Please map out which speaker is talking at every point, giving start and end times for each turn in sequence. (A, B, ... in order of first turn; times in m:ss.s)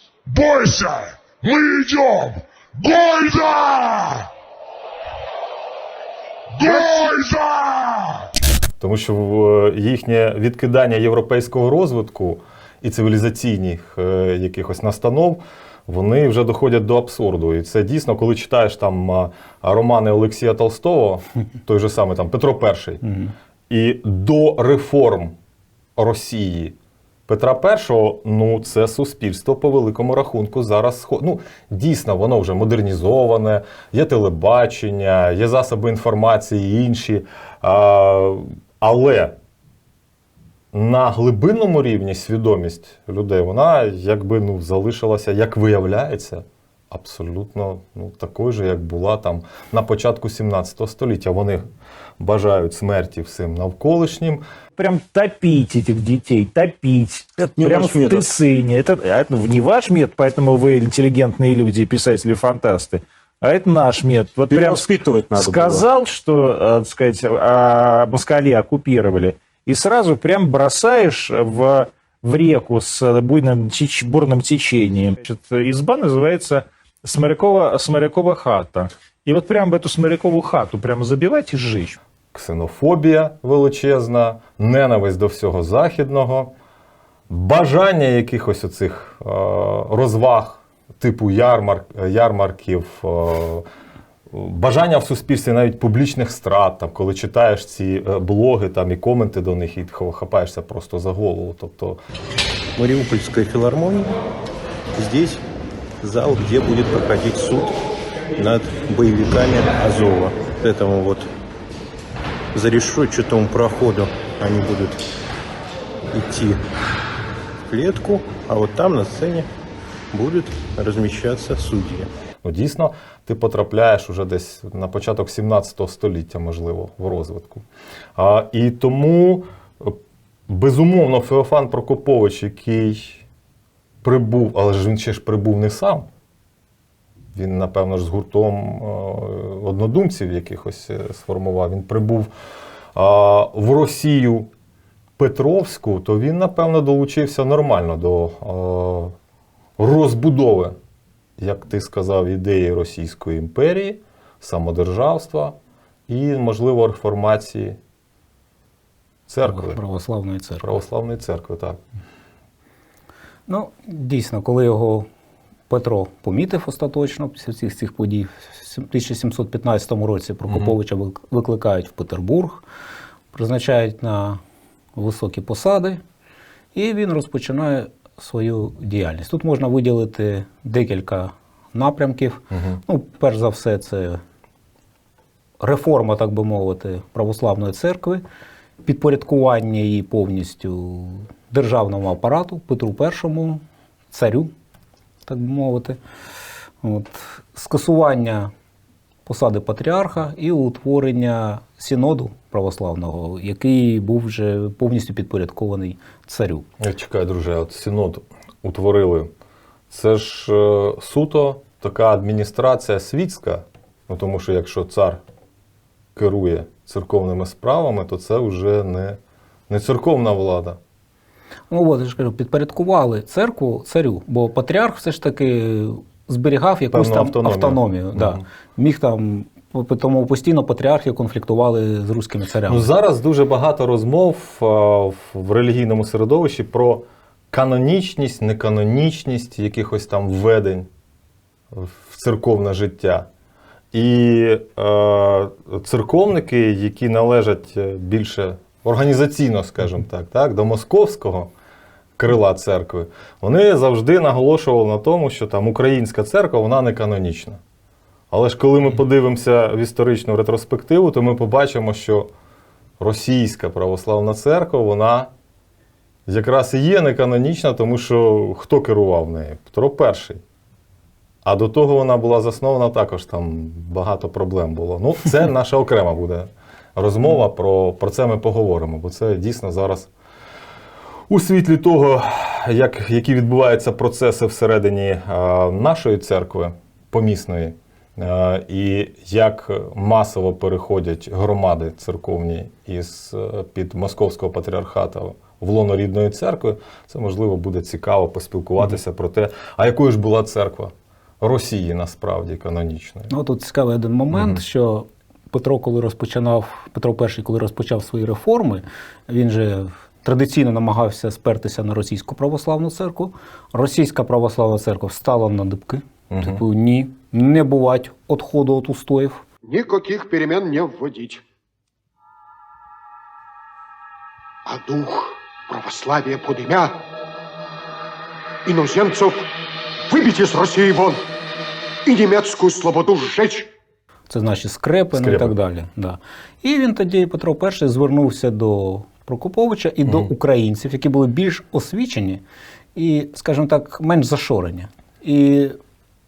0:00.2-0:04.3 A
0:06.5-0:08.3 A
0:08.8-0:23.0 B
0:23.0-0:23.3 C
0:23.7-0:25.3 B
0:26.0-0:26.7 B
0:27.3-0:39.4 B
0:40.7-0:51.6 B
0:52.2-0:54.4 B
0:54.8-1:22.0 D
0:57.7-0:58.1 E
1:22.3-1:26.5 B
1:27.3-1:33.6 B
1:34.3-1:42.0 B
1:42.8-1:44.1 E
1:44.9-1:45.4 E
1:46.0-1:47.7 E
1:48.4-1:51.3 E
1:52.5-1:55.0 E
1:56.1-1:56.6 E
1:57.7-1:59.5 E
2:00.1-2:02.1 E
2:02.4-2:07.6 B
2:08.2-2:13.2 B
2:14.0-2:16.1 B
2:17.3-2:22.3 B
2:22.9-2:24.5 B
2:25.2-2:29.1 B
2:29.8-2:30.8 B
2:31.4-2:35.6 B
2:36.1-2:37.8 B
2:39.3-2:39.8 B
2:39.4-2:40.7 C
2:40.6-2:41.8 B
2:43.5-2:45.1 C
2:45.7-2:52.6 C
2:53.3-2:54.4 C
2:55.0-2:56.0 C
2:56.7-3:04.2 C
3:02.5-3:02.8 B
3:05.6-3:08.2 C
3:08.8-3:14.5 C
3:15.2-3:16.0 C
3:16.8-3:18.5 C
3:19.2-3:26.7 C
3:26.8-3:29.3 B
3:29.9-3:35.2 B
3:36.1-3:39.2 B
3:39.7-3:40.8 B
3:41.7-3:52.9 C
3:46.9-3:48.4 B
3:52.7-4:00.9 B
4:01.7-4:03.3 B
4:03.9-4:11.5 B
4:12.2-4:17.6 B
4:18.3-4:22.3 B
4:23.0-4:25.3 B
4:26.3-4:30.4 B
4:31.4-4:40.1 B
4:41.3-5:03.3 B
5:03.3-5:19.4 C
5:04.3-5:04.6 B
5:16.3-5:16.6 B
5:19.6-5:21.4 F
5:24.6-5:27.0 F
5:28.6-5:29.5 F
5:30.1-5:31.2 F
5:32.0-5:33.7 F
5:34.3-5:42.4 C
5:35.1-5:35.5 B
5:42.9-5:45.8 C